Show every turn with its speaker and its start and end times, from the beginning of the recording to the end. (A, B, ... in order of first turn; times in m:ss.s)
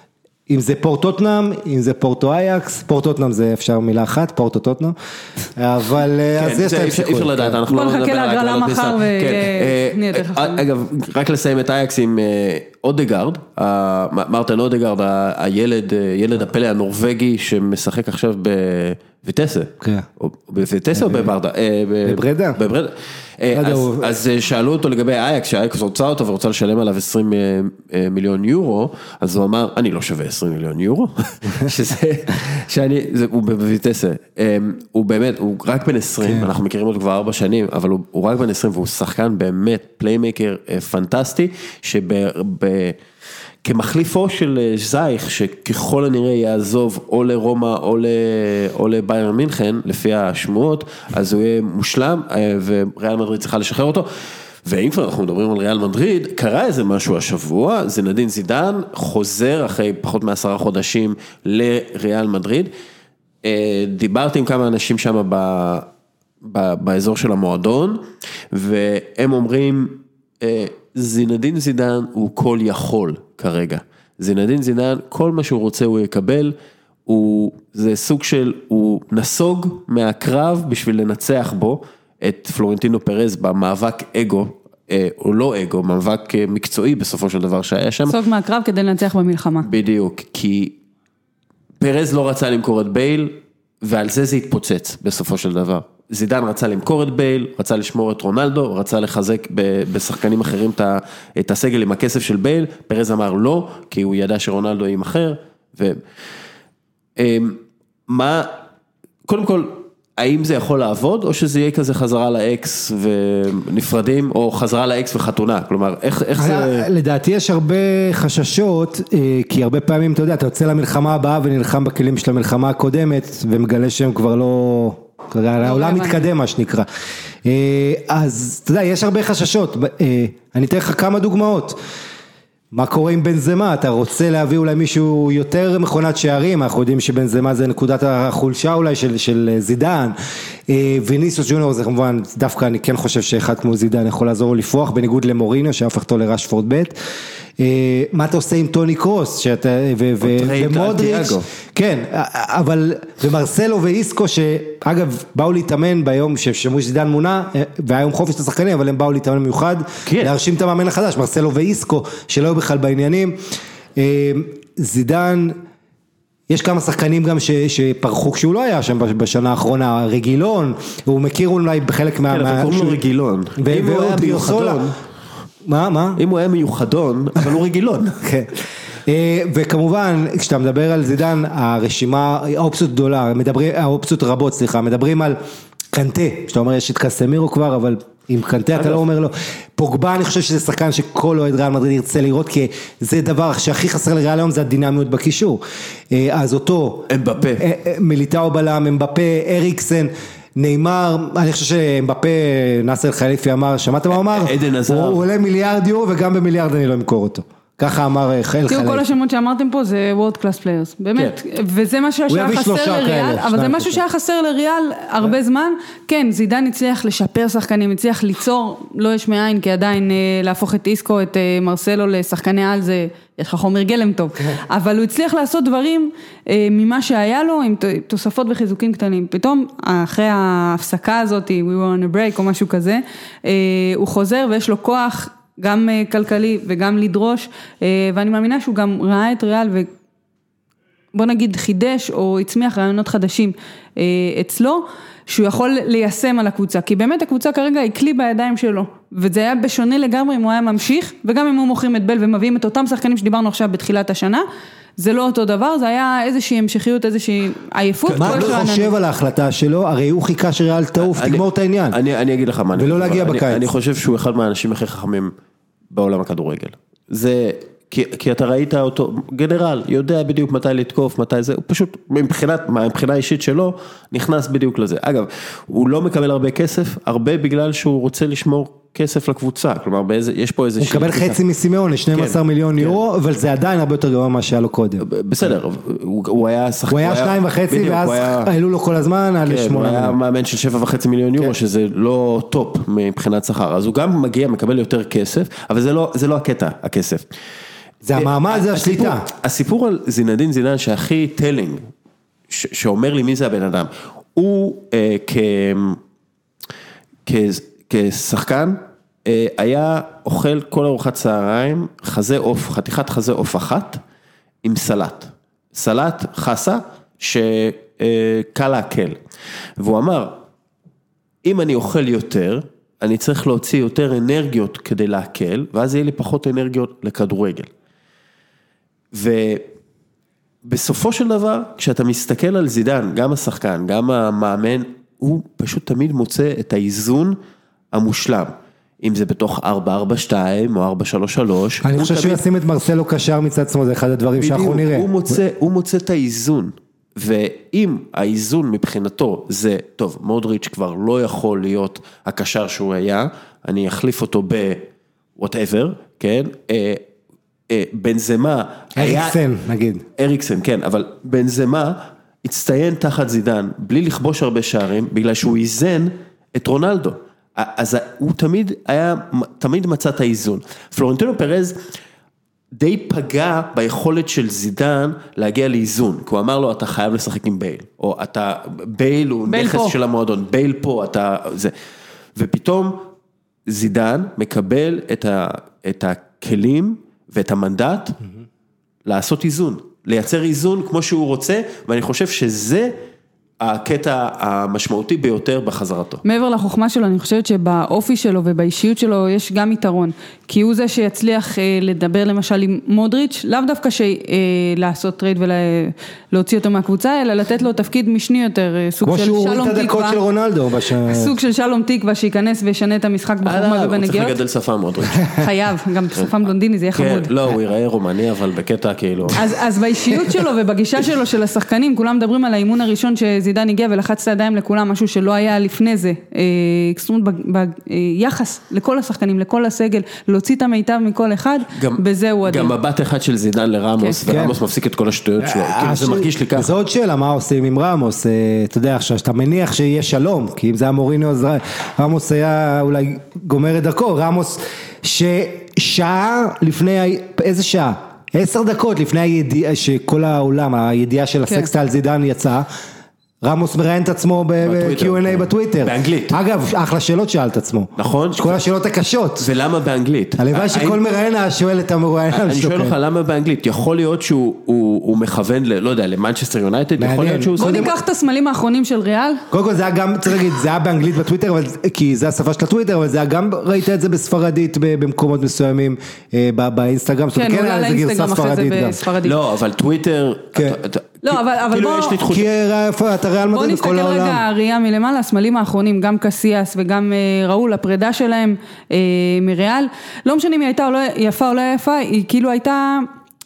0:00.5-0:04.9 A
0:05.6-0:07.6 A
0:06.4-0:43.0 B
0:07.7-0:10.6 C
0:19.8-0:20.0 A
0:21.0-0:21.3 A
0:22.0-0:22.6 A
0:23.5-0:24.2 A
0:36.2-0:36.5 A
0:43.6-0:54.1 B
0:54.6-1:02.7 B
1:03.4-1:05.9 B
1:06.4-1:16.5 B
1:17.1-1:28.2 B
1:28.1-1:29.7 C
1:29.6-1:30.7 B
1:31.8-1:46.0 B
1:47.2-1:48.5 B
1:49.3-1:56.9 B
1:56.4-2:06.8 A
2:05.6-2:06.2 C
2:07.4-2:11.8 A
2:12.7-2:20.1 A
2:20.7-2:26.9 A
2:27.6-2:43.4 A
2:30.2-2:31.4 B
2:40.0-2:40.3 B
2:44.0-2:45.6 A
2:46.5-2:53.0 A
2:52.3-2:55.0 B
2:53.6-2:54.9 A
2:55.6-2:56.2 A
2:56.2-2:58.2 B
2:58.2-2:58.5 A
2:59.0-3:05.4 A
3:05.9-3:29.1 A
3:08.8-3:09.0 B
3:17.1-3:17.6 B
3:24.1-3:25.2 B
3:28.7-3:59.9 C
3:32.3-3:34.0 A
4:01.1-4:14.4 C
4:15.0-4:18.9 C
4:18.1-4:22.0 A
4:21.0-4:25.3 B
4:22.8-4:23.7 A
4:25.9-4:41.4 B
4:40.8-4:45.0 A
4:42.1-4:43.0 B
4:45.0-4:48.5 B
4:46.9-4:50.2 A
4:49.4-4:57.2 B
4:58.0-4:59.2 A
4:58.1-5:01.9 B
5:02.5-5:06.0 B
5:07.2-5:14.0 B
5:14.6-5:19.2 B
5:19.8-5:20.4 B
5:21.4-5:27.7 B
5:29.1-5:29.6 B
5:30.6-5:37.4 B
5:37.9-5:42.4 B
5:41.8-5:45.4 A
5:44.4-5:57.0 B
5:57.7-5:59.4 B
5:59.0-6:00.0 A
6:00.2-6:11.8 B
6:12.8-6:21.7 B
6:19.5-6:19.9 C
6:22.4-6:23.0 B
6:23.7-6:28.2 B
6:29.0-6:33.0 B
6:33.6-6:36.2 B
6:36.2-6:50.2 C
6:49.0-6:51.3 A
6:51.1-6:54.4 C
6:53.4-6:55.4 B
6:55.3-6:57.3 C
6:56.9-6:59.4 B
6:59.3-7:12.7 C
7:11.8-7:16.7 B
7:14.3-7:14.6 A
7:15.4-7:32.6 A
7:33.4-7:39.5 A
7:34.6-7:36.4 B
7:38.0-7:38.6 B
7:39.4-7:41.0 B
7:40.4-7:43.0 A
7:42.3-7:47.9 B
7:47.0-7:47.9 A
7:47.6-7:49.4 C
7:49.5-7:59.0 A
7:57.3-7:59.4 C
7:59.2-8:02.5 B
8:01.2-8:02.2 C
8:02.3-8:04.4 A
8:03.5-8:13.1 C